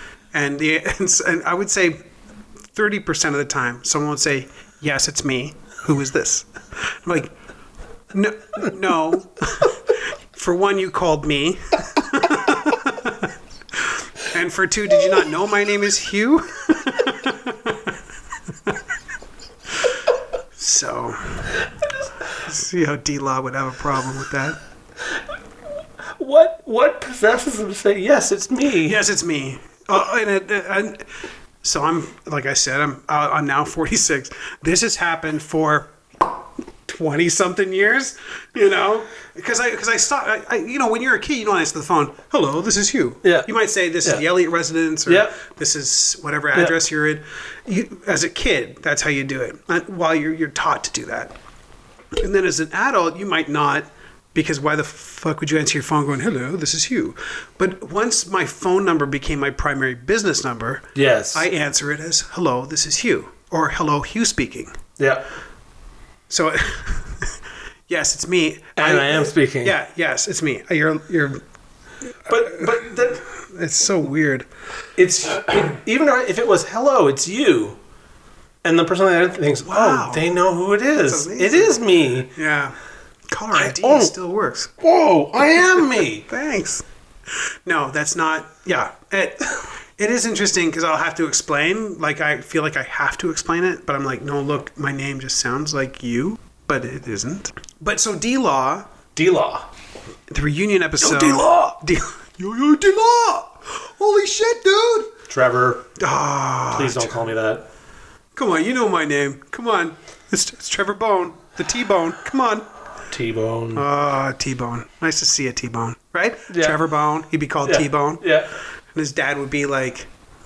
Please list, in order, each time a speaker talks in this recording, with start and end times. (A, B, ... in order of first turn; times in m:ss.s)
0:00.3-0:02.0 A
0:02.7-0:07.3 A
0:08.1-0:18.0 A
0:20.6-0:21.5 A
0:22.4-0:24.6 A
0:26.2-0:29.0 B
0:28.8-0:31.1 A
0:31.6-0:51.3 A
0:45.1-0:45.4 B
0:52.1-1:04.8 A
1:00.9-1:01.5 B
1:06.3-1:11.4 A
1:08.8-1:09.7 B
1:12.3-1:13.2 B
1:12.3-1:14.5 A
1:15.0-1:17.8 B
1:18.6-1:22.3 B
1:19.6-1:20.4 A
1:21.0-1:22.7 A
1:23.3-1:24.8 A
1:23.5-1:24.1 B
1:24.8-1:26.3 B
1:25.6-1:38.9 A
1:39.2-1:39.7 B
1:40.3-1:45.1 A
1:41.0-1:41.7 B
1:45.3-1:45.9 B
1:46.0-1:47.3 A
1:46.7-1:47.6 B
1:48.3-1:52.7 A
1:53.1-1:53.8 B
1:53.7-1:58.4 A
1:56.5-1:56.8 B
1:57.6-1:58.5 B
1:58.9-2:00.1 A